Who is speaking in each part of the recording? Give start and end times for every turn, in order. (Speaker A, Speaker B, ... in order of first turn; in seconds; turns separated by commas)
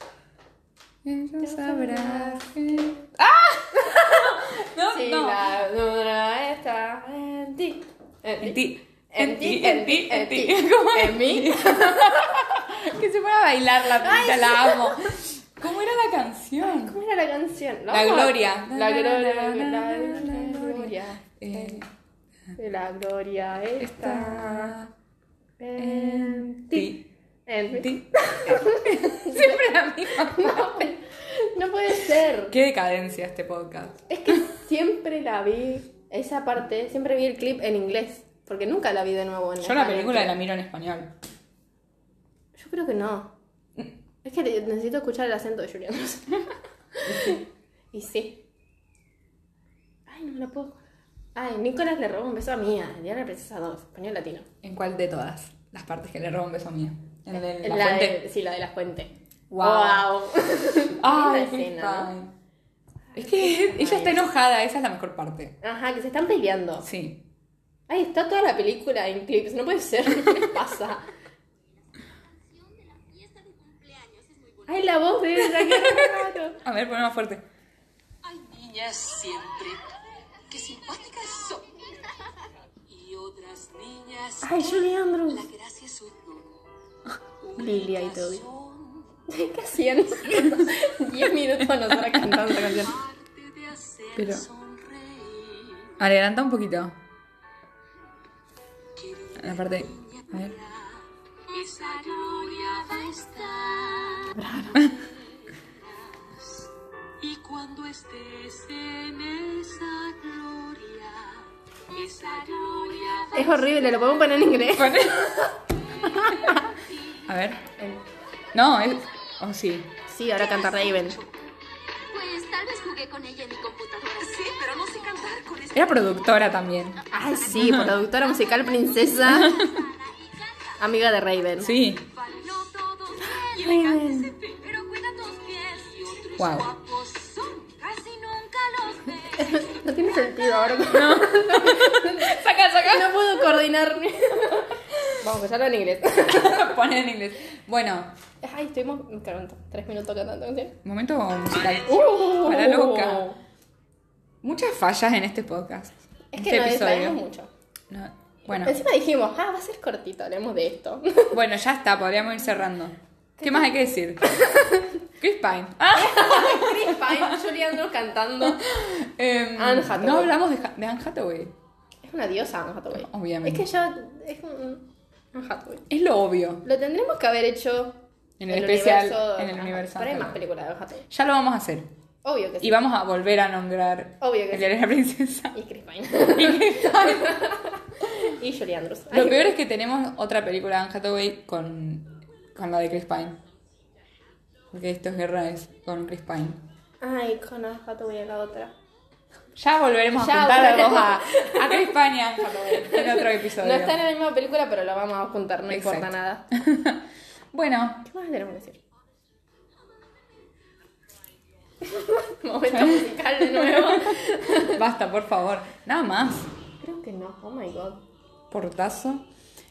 Speaker A: 1.0-5.5, Speaker B: 1.4-3.0, Speaker B: 3.7-12.6, Speaker A: 8.4-17.0, Speaker B: 14.0-15.2, Speaker B: 16.6-21.8, Speaker A: 17.9-21.9, Speaker B: 22.6-24.8, Speaker A: 23.8-24.9, Speaker B: 25.6-32.5, Speaker A: 25.8-27.0, Speaker A: 27.7-30.9, Speaker A: 32.5-34.4, Speaker B: 34.1-40.3, Speaker A: 39.6-41.1, Speaker B: 42.5-43.3, Speaker B: 44.2-48.4, Speaker A: 47.1-47.4, Speaker B: 50.1-50.8, Speaker B: 51.4-54.5, Speaker A: 54.6-58.2, Speaker B: 57.3-62.1, Speaker A: 59.5-60.1, Speaker A: 61.0-62.4, Speaker B: 63.1-64.2, Speaker A: 63.1-65.6, Speaker B: 65.6-66.9, Speaker A: 66.8-67.2, Speaker B: 67.9-71.1, Speaker C: 73.3-74.5, Speaker B: 74.7-76.6, Speaker A: 75.4-77.4, Speaker C: 78.2-79.9, Speaker C: 80.5-81.9, Speaker C: 82.9-86.6, Speaker B: 84.4-85.5, Speaker C: 87.4-89.2, Speaker B: 87.6-88.4, Speaker B: 89.3-92.9, Speaker A: 91.8-92.8, Speaker C: 92.8-96.0, Speaker A: 94.2-94.5, Speaker A: 96.0-97.0, Speaker C: 99.0-106.7, Speaker A: 99.4-100.5, Speaker B: 104.3-104.9, Speaker C: 107.2-114.2, Speaker B: 113.3-115.2, Speaker A: 114.7-115.5, Speaker C: 116.0-116.9, Speaker B: 116.0-116.7, Speaker A: 117.3-117.8, Speaker A: 118.5-119.9, Speaker B: 120.1-121.2, Speaker C: 120.4-121.2, Speaker C: 122.1-126.4, Speaker A: 125.7-127.0, Speaker B: 127.1-129.7, Speaker A: 127.5-128.0, Speaker A: 129.3-129.8, Speaker C: 129.3-130.7, Speaker B: 130.8-131.7, Speaker A: 131.6-132.0, Speaker C: 131.6-140.9, Speaker B: 133.3-134.3, Speaker A: 136.4-136.7, Speaker B: 139.4-146.7, Speaker A: 140.9-143.3, Speaker A: 146.2-148.1, Speaker B: 148.4-150.8, Speaker A: 150.8-153.3, Speaker B: 151.7-153.4, Speaker A: 154.4-157.2, Speaker B: 156.3-157.5, Speaker A: 157.9-158.8, Speaker B: 158.5-161.4, Speaker A: 161.3-164.3, Speaker B: 163.4-164.9, Speaker A: 165.2-167.4, Speaker B: 165.9-168.7, Speaker A: 168.4-171.5, Speaker B: 169.6-170.3, Speaker B: 172.0-175.9, Speaker A: 173.0-173.6, Speaker A: 175.9-176.6, Speaker B: 176.6-181.1, Speaker A: 178.4-180.4, Speaker A: 181.1-181.9, Speaker B: 182.2-182.8, Speaker A: 182.6-185.6, Speaker B: 184.2-184.7, Speaker B: 185.5-189.5, Speaker A: 186.3-187.4, Speaker A: 189.1-193.4, Speaker A: 194.7-196.6, Speaker B: 197.0-198.7, Speaker A: 199.6-204.0, Speaker B: 200.1-206.5, Speaker A: 205.7-208.0, Speaker B: 208.0-208.8, Speaker B: 211.8-214.8, Speaker A: 212.7-216.5, Speaker B: 216.8-218.0, Speaker A: 218.5-219.3